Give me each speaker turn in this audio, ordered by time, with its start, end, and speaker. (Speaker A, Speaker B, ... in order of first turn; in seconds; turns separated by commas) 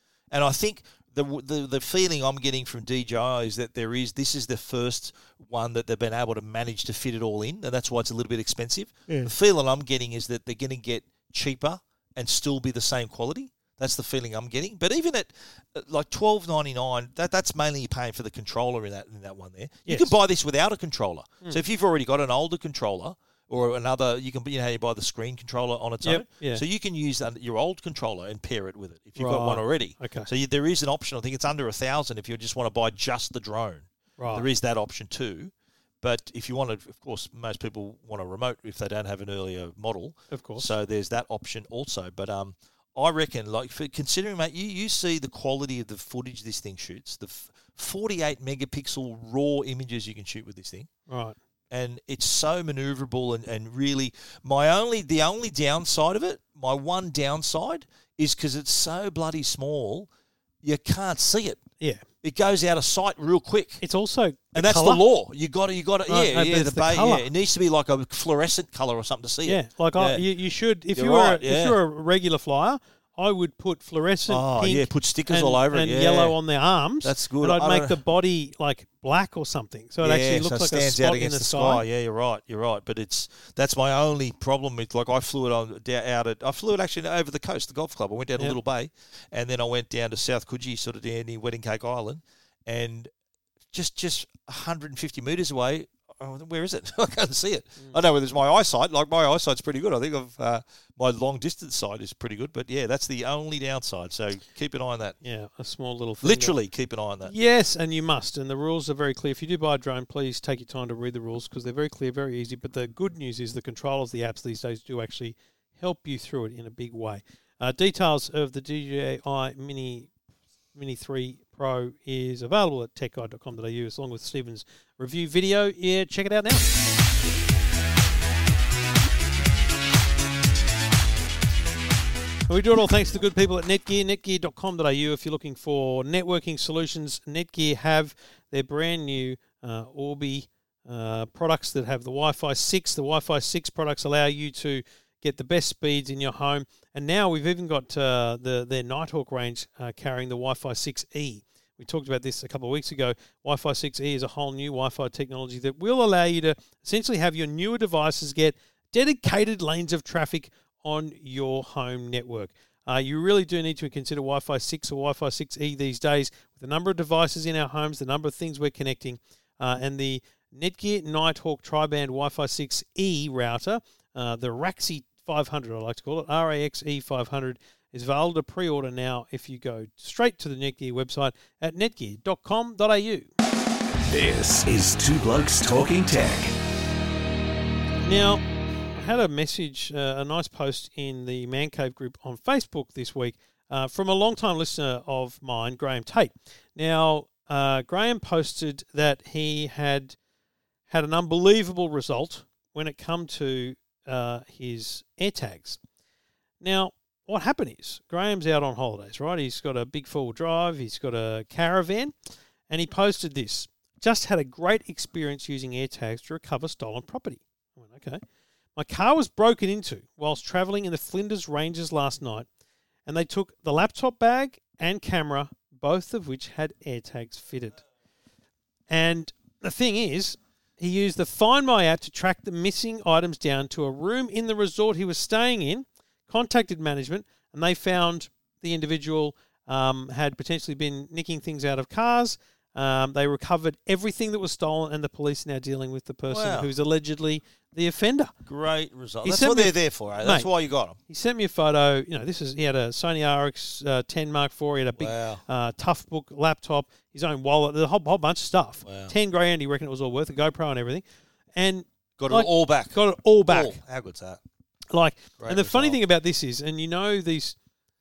Speaker A: 0.3-50.9, Speaker B: 19.9-20.1, Speaker B: 26.0-26.6, Speaker B: 29.1-30.3, Speaker B: 34.2-34.5, Speaker B: 40.3-40.7, Speaker B: 51.1-51.4, Speaker A: 51.7-60.1, Speaker A: 60.6-61.6, Speaker A: 62.2-63.8, Speaker B: 63.8-65.0, Speaker A: 64.5-70.2, Speaker B: 66.1-67.3, Speaker B: 69.4-81.8, Speaker A: 70.9-71.8, Speaker A: 74.3-76.4, Speaker A: 77.0-78.0, Speaker A: 80.0-93.1, Speaker A: 93.7-105.2, Speaker B: 105.2-106.6, Speaker A: 106.2-107.3, Speaker B: 107.2-120.1, Speaker B: 120.7-126.8, Speaker B: 132.5-183.3, Speaker C: 184.1-186.5, Speaker B: 188.0-188.4, Speaker B: 188.9-200.2, Speaker B: 200.9-205.8, Speaker B: 206.6-212.1, Speaker B: 212.7-218.2, Speaker B: 218.8-222.5, Speaker B: 223.1-227.8, Speaker B: 228.9-248.3, Speaker A: 246.3-246.7, Speaker A: 248.4-251.0, Speaker B: 249.2-250.5, Speaker B: 251.1-261.0, Speaker A: 255.0-255.4, Speaker A: 258.8-259.1, Speaker B: 261.5-263.8, Speaker A: 262.2-264.4, Speaker B: 264.9-267.6, Speaker A: 265.4-266.0